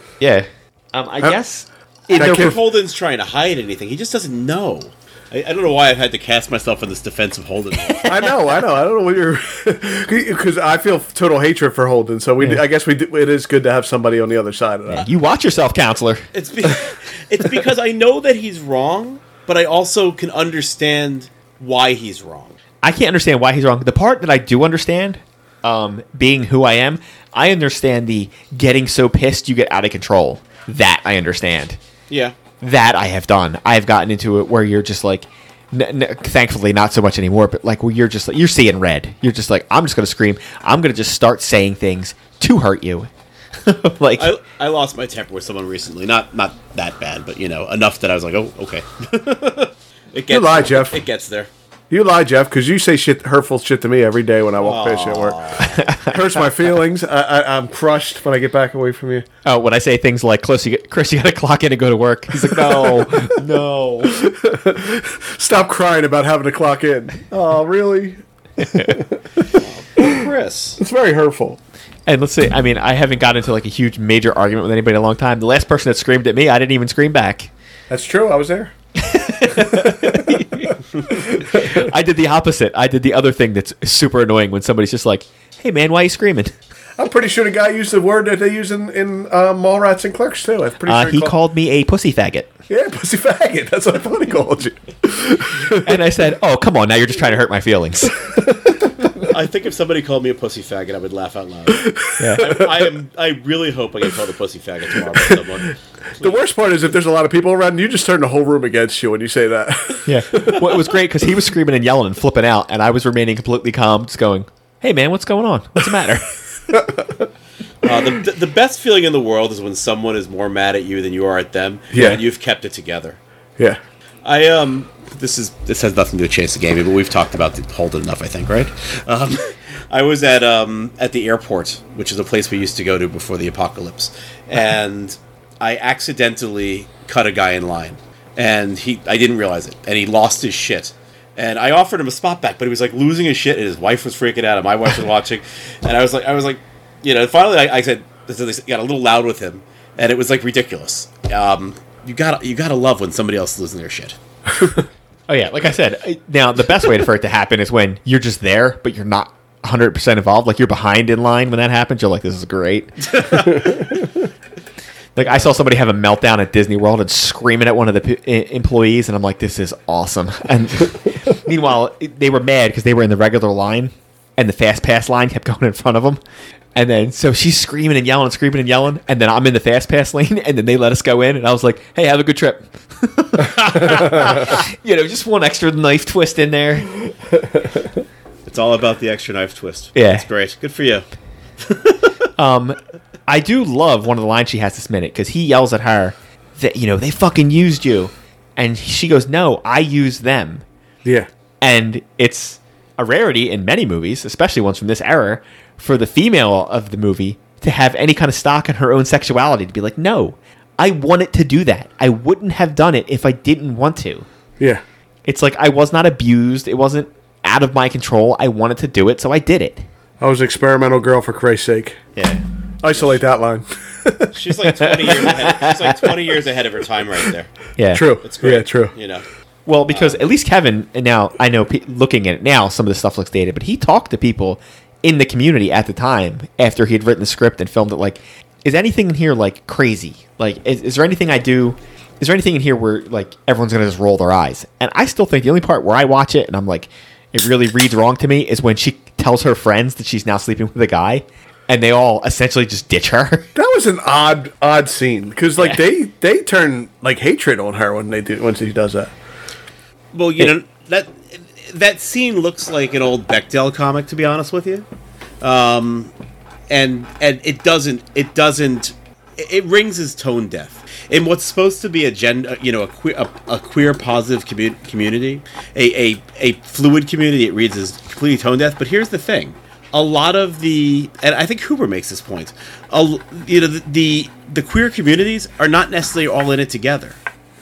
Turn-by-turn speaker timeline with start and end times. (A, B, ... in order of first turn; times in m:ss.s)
0:00.2-0:02.6 A
0:02.1-0:08.2 B
0:02.1-0:02.6 C
0:08.0-0:15.1 C
0:14.9-0:16.3 A
0:16.3-0:22.5 B
0:22.8-0:31.8 A
0:32.1-0:32.3 B
0:32.6-0:43.1 A
0:43.6-0:44.3 A
0:44.2-0:51.5 B
0:50.3-0:51.0 C
0:51.9-0:55.4 C
0:54.6-0:55.9 B
0:55.8-0:56.2 A
0:56.0-0:59.2 C
0:59.4-1:04.2 A
1:02.4-1:03.4 C
1:04.0-1:09.2 C
1:09.5-1:10.8 B
1:10.8-1:11.6 C
1:12.0-1:17.5 A
1:17.9-1:18.7 C
1:19.0-1:26.5 A
1:19.7-1:20.4 C
1:21.5-1:21.8 C
1:27.0-1:31.3 C
1:30.8-1:32.5 A
1:32.7-1:35.9 C
1:35.7-1:38.4 A
1:39.3-1:46.4 B
1:41.8-1:42.2 C
1:42.2-1:42.6 A
1:46.2-1:50.6 C
1:50.0-1:56.8 A
1:56.7-1:57.0 C
1:57.8-2:03.2 B
2:01.9-2:02.2 C
2:04.2-2:34.2 B
2:35.3-2:43.7 A
2:43.1-2:43.4 B
2:45.2-2:56.2 A
2:56.7-3:06.9 A
3:08.4-3:11.0 B
3:09.9-3:10.2 A
3:11.6-3:12.1 B
3:12.4-3:20.6 A
3:21.6-3:34.3 A
3:35.2-3:39.8 A
3:40.2-3:42.0 C
3:42.2-3:42.4 A
3:42.8-3:44.3 C
3:44.3-3:47.5 B
3:44.8-3:46.1 A
3:47.8-3:48.1 A
3:47.9-3:48.9 C
3:48.2-3:49.2 B
3:49.6-4:13.5 A
3:49.9-3:50.2 B
4:13.5-4:19.1 C
4:20.1-4:24.8 B
4:25.4-4:26.1 B
4:26.7-4:47.2 B